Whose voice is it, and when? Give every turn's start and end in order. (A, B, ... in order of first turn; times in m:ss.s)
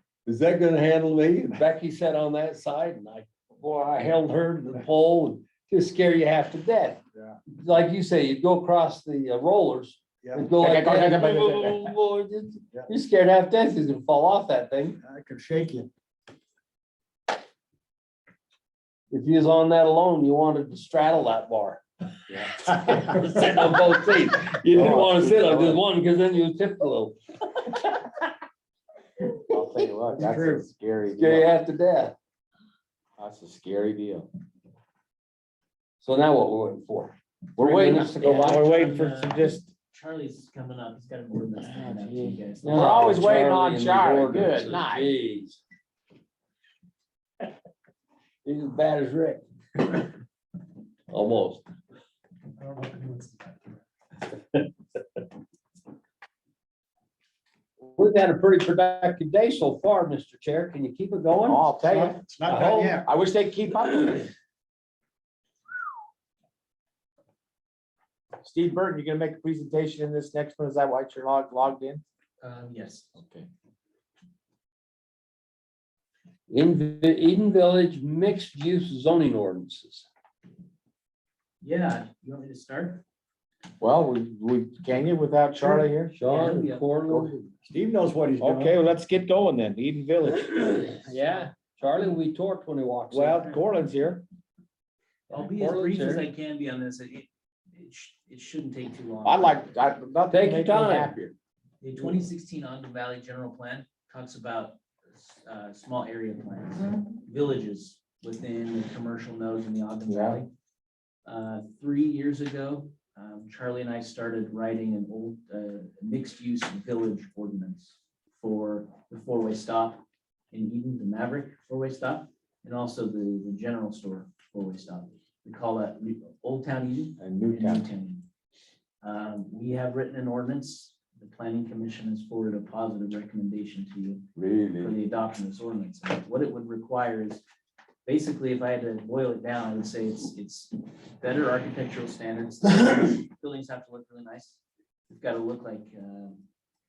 0:00.2-0:15.0 A
0:10.2-0:10.5 B
0:10.6-0:11.9 C
0:15.0-0:15.9 B
0:19.1-0:21.8 A
0:22.6-0:27.8 A
0:24.7-0:25.8 C
0:29.5-0:31.5 C
0:30.2-0:30.7 B
0:31.1-0:32.1 A
0:33.2-0:34.3 C
0:36.0-0:38.7 A
0:37.6-0:39.7 C
0:38.5-0:43.3 D
0:41.6-0:45.1 C
0:42.6-0:45.6 A
0:48.4-0:50.0 A
0:51.1-0:51.6 A
0:57.9-1:01.6 A
1:01.4-1:02.2 C
1:01.8-1:03.1 B
1:02.4-1:03.0 A
1:03.0-1:04.3 C
1:08.4-1:12.0 C
1:12.4-1:13.1 D
1:13.1-1:13.5 C
1:16.5-1:20.1 A
1:21.6-1:23.0 D
1:23.8-1:26.1 C
1:26.1-1:27.3 A
1:26.3-1:26.9 D
1:27.1-1:27.5 C
1:27.7-1:28.8 B
1:28.4-1:31.0 C
1:30.9-1:33.4 A
1:31.2-1:31.5 D
1:33.1-1:34.2 C
1:33.3-1:33.9 D
1:35.3-1:36.2 A
1:35.3-1:39.7 D
1:39.2-1:41.3 C
1:40.3-1:41.1 A
1:41.8-1:50.5 D
1:50.0-1:50.4 C
1:51.2-2:08.2 D
2:07.2-2:07.8 C
2:09.0-2:17.4 D
2:14.3-2:14.9 C
2:18.0-2:26.4 D